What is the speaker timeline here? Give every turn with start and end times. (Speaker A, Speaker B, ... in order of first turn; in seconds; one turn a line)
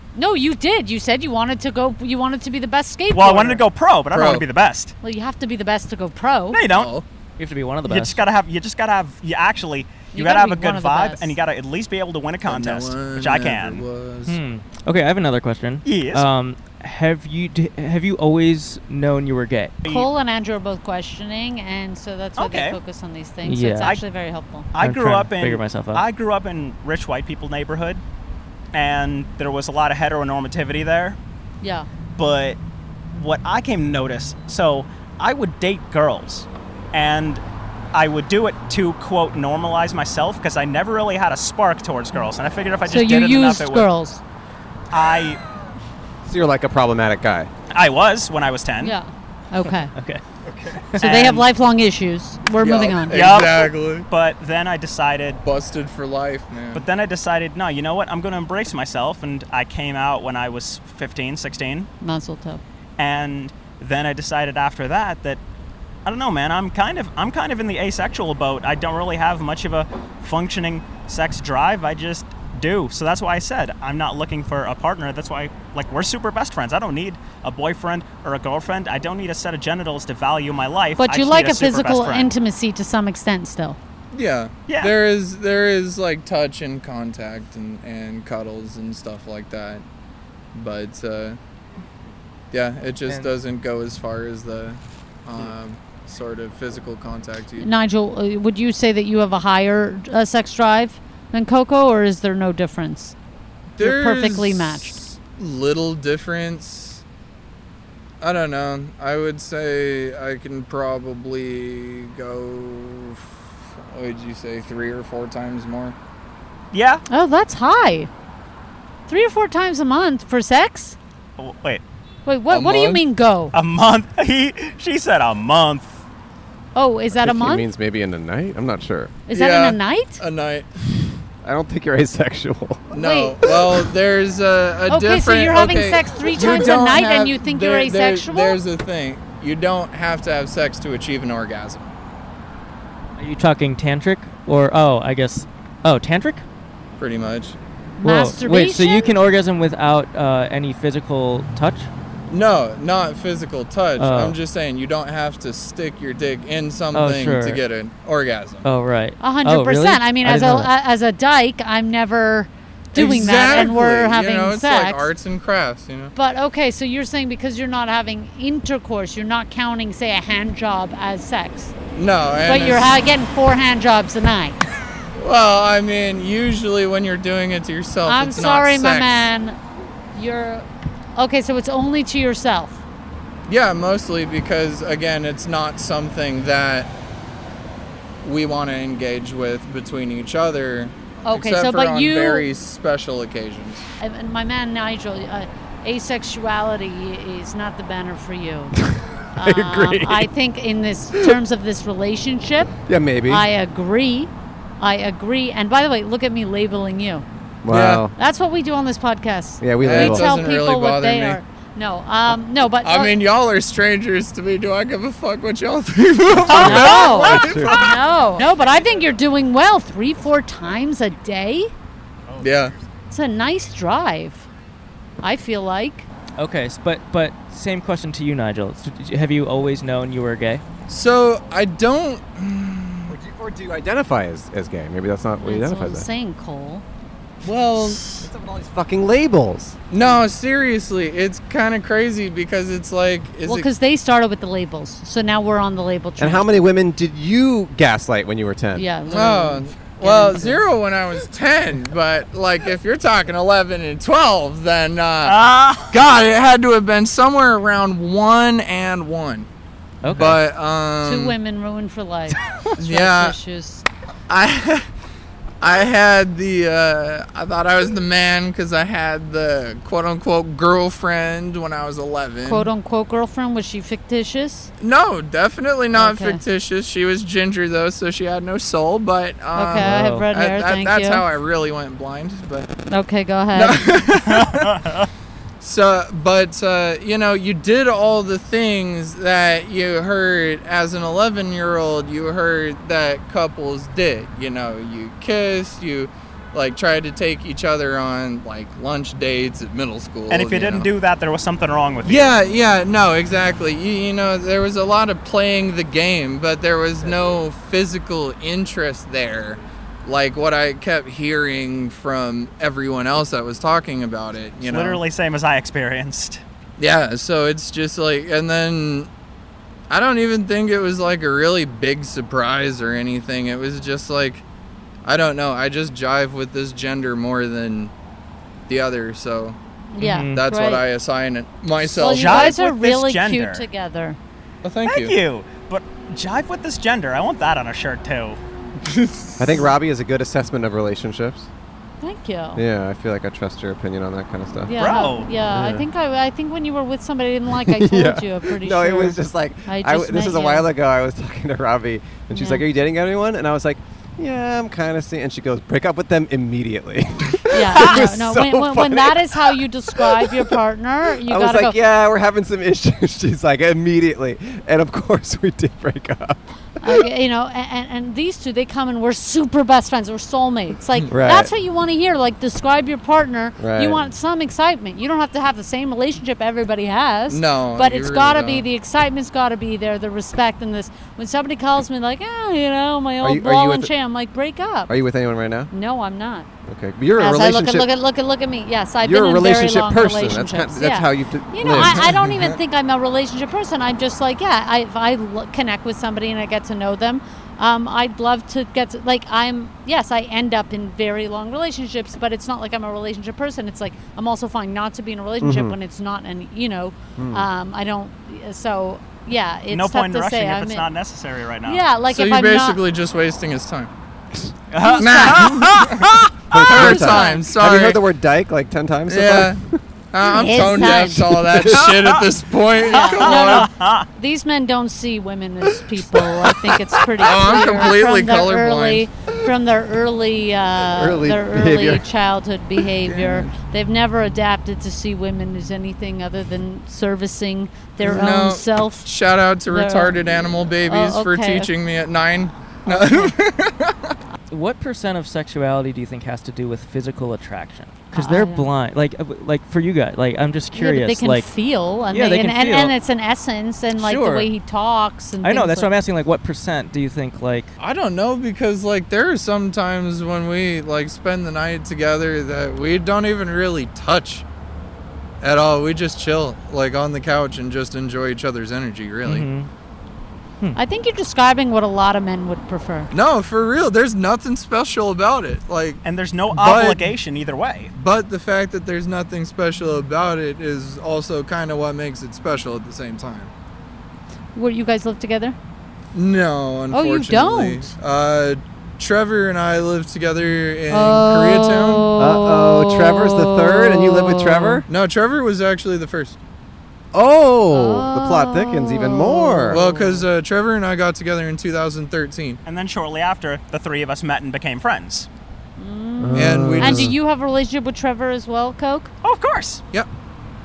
Speaker A: 0.1-3.6
Speaker B: 3.1-4.9
Speaker C: 4.1-4.5
Speaker A: 5.0-6.6
Speaker B: 6.5-6.9
Speaker C: 6.7-7.0
Speaker D: 7.4-8.2
Speaker B: 7.8-13.8
Speaker A: 10.1-11.3
Speaker C: 12.4-14.4
Speaker D: 14.3-19.8
Speaker B: 15.8-16.3
Speaker B: 19.8-20.1
Speaker A: 19.9-24.7
Speaker B: 22.4-22.8
Speaker D: 23.4-23.9
Speaker B: 24.7-28.0
Speaker D: 24.8-26.0
Speaker B: 28.7-31.2
Speaker A: 31.6-31.9
Speaker B: 32.2-32.6
Speaker B: 33.1-37.4
Speaker B: 37.9-43.9
Speaker A: 42.9-44.2
Speaker B: 44.9-45.4
Speaker E: 46.2-47.5
Speaker B: 47.7-49.0
Speaker A: 48.8-49.9
Speaker D: 49.9-50.2
Speaker B: 50.9-51.5
Speaker A: 51.0-53.2
Speaker C: 52.6-54.1
Speaker B: 53.1-55.4
Speaker C: 55.4-56.8
Speaker B: 56.7-61.9
Speaker A: 62.0-62.6
Speaker B: 63.0-65.4
Speaker B: 66.0-82.3
Speaker A: 81.0-83.8
Speaker C: 84.1-89.8
Speaker B: 84.7-85.0
Speaker C: 90.5-91.4
Speaker C: 92.5-97.7
Speaker A: 97.6-103.1
Speaker C: 103.8-107.0
Speaker A: 103.8-105.0
Speaker C: 108.2-116.0
Speaker B: 116.7-117.0
Speaker A: 117.1-118.1
Speaker A: 119.1-121.0
Speaker B: 121.4-121.8
Speaker A: 122.2-123.5
Speaker C: 122.5-123.0
Speaker B: 123.5-126.0
Speaker A: 126.7-127.7
Speaker E: 127.1-129.2
Speaker A: 129.3-130.2
Speaker C: 129.3-130.7
Speaker E: 131.4-132.9
Speaker C: 132.9-141.9
Speaker A: 132.9-133.4
Speaker E: 133.4-133.8
Speaker A: 134.9-138.6
Speaker D: 143.2-146.4
Speaker C: 147.0-147.6
Speaker A: 148.0-149.1
Speaker D: 148.0-151.9
Speaker C: 152.3-158.6
Speaker D: 154.0-154.4
Speaker D: 156.9-157.6
Speaker D: 158.6-160.7
Speaker A: 159.2-165.1
Speaker C: 162.9-166.1
Speaker A: 166.2-171.7
Speaker C: 171.9-172.9
Speaker A: 172.4-174.6
Speaker C: 175.2-179.1
Speaker A: 178.1-179.6
Speaker A: 180.1-182.8
Speaker C: 183.5-186.9
Speaker C: 188.2-193.9
Speaker A: 191.3-192.5
Speaker A: 194.0-198.8
Speaker E: 198.8-200.3
Speaker A: 199.3-202.7
Speaker E: 202.9-203.5
Speaker A: 203.3-207.2
Speaker E: 207.6-208.1
Speaker C: 207.7-208.1
Speaker A: 208.2-213.2
Speaker E: 209.6-210.3
Speaker C: 209.8-211.4
Speaker C: 212.8-218.0
Speaker E: 216.4-217.8
Speaker A: 216.5-221.7
Speaker B: 216.6-217.4
Speaker C: 222.4-222.7
Speaker A: 223.1-224.5
Speaker A: 225.2-226.1
Speaker D: 226.4-230.6
Speaker C: 230.9-233.1
Speaker E: 233.1-236.1
Speaker A: 235.4-236.8
Speaker C: 237.4-238.3
Speaker E: 237.8-239.8
Speaker C: 239.9-243.7
Speaker A: 243.4-246.6
Speaker E: 246.2-248.9
Speaker A: 248.7-250.6
Speaker C: 249.1-255.4
Speaker B: 255.2-255.9
Speaker C: 255.9-259.5
Speaker D: 260.0-260.4
Speaker C: 260.1-261.4
Speaker A: 261.0-263.9
Speaker C: 262.8-263.4
Speaker C: 264.3-264.9
Speaker C: 265.6-272.7
Speaker A: 272.4-274.7
Speaker C: 274.8-282.8
Speaker A: 275.9-276.4
Speaker A: 279.6-281.2
Speaker D: 279.8-280.3
Speaker A: 282.9-283.8
Speaker C: 283.5-284.8
Speaker B: 284.3-285.1
Speaker C: 285.6-300.9
Speaker B: 300.3-302.3
Speaker C: 302.0-315.0
Speaker B: 314.6-316.4
Speaker C: 316.8-319.1
Speaker C: 319.9-324.4
Speaker C: 325.1-327.9
Speaker C: 328.7-329.6
Speaker A: 329.9-330.9
Speaker D: 330.0-330.4
Speaker C: 330.3-332.6
Speaker A: 331.8-334.2
Speaker B: 332.0-333.7
Speaker C: 334.6-335.1
Speaker B: 334.8-338.4
Speaker C: 338.8-339.6
Speaker E: 339.4-341.5
Speaker A: 342.0-342.6
Speaker E: 342.6-344.8
Speaker A: 344.6-350.7
Speaker B: 344.8-345.3
Speaker E: 345.5-345.9
Speaker E: 347.6-360.6
Speaker A: 352.3-352.6
Speaker A: 357.5-361.8
Speaker E: 361.2-367.1
Speaker A: 366.8-384.9
Speaker E: 371.1-371.5
Speaker E: 373.6-374.1
Speaker C: 377.3-378.7
Speaker E: 383.2-383.9
Speaker E: 384.9-385.7
Speaker A: 385.7-386.5
Speaker E: 386.7-387.9
Speaker A: 387.2-410.9
Speaker E: 389.0-392.1
Speaker C: 391.6-392.6
Speaker E: 405.4-405.8
Speaker E: 407.2-407.5
Speaker B: 409.7-411.8
Speaker A: 411.6-412.8
Speaker C: 412.1-413.9
Speaker B: 414.7-416.3
Speaker A: 414.8-415.6
Speaker C: 415.0-418.0
Speaker E: 416.5-419.8
Speaker A: 416.6-417.5
Speaker C: 419.1-419.6
Speaker C: 420.1-423.7
Speaker A: 420.2-421.4
Speaker E: 420.3-421.8
Speaker B: 421.8-422.2
Speaker A: 422.8-439.1
Speaker B: 422.9-424.1
Speaker C: 427.2-429.1
Speaker E: 430.9-432.1
Speaker C: 433.0-433.5
Speaker C: 438.0-444.2
Speaker A: 439.7-441.7
Speaker A: 442.9-443.3
Speaker D: 444.5-451.5
Speaker A: 448.1-448.7
Speaker A: 450.7-455.9
Speaker D: 452.1-452.9
Speaker D: 454.0-454.5
Speaker D: 455.4-457.7
Speaker C: 457.8-464.4
Speaker C: 465.4-469.4
Speaker D: 469.2-469.7
Speaker A: 470.8-473.1
Speaker C: 473.1-476.0
Speaker B: 476.0-477.9
Speaker C: 476.5-477.0
Speaker C: 477.9-483.5
Speaker A: 484.5-485.6
Speaker C: 486.1-492.1
Speaker A: 486.9-487.9
Speaker A: 490.9-494.8
Speaker E: 492.2-494.9
Speaker C: 494.9-496.4
Speaker E: 497.1-499.8
Speaker A: 497.7-500.2
Speaker C: 499.7-502.6
Speaker B: 502.6-505.3
Speaker A: 505.8-509.1
Speaker E: 506.2-507.1
Speaker C: 506.3-507.1
Speaker B: 509.2-509.8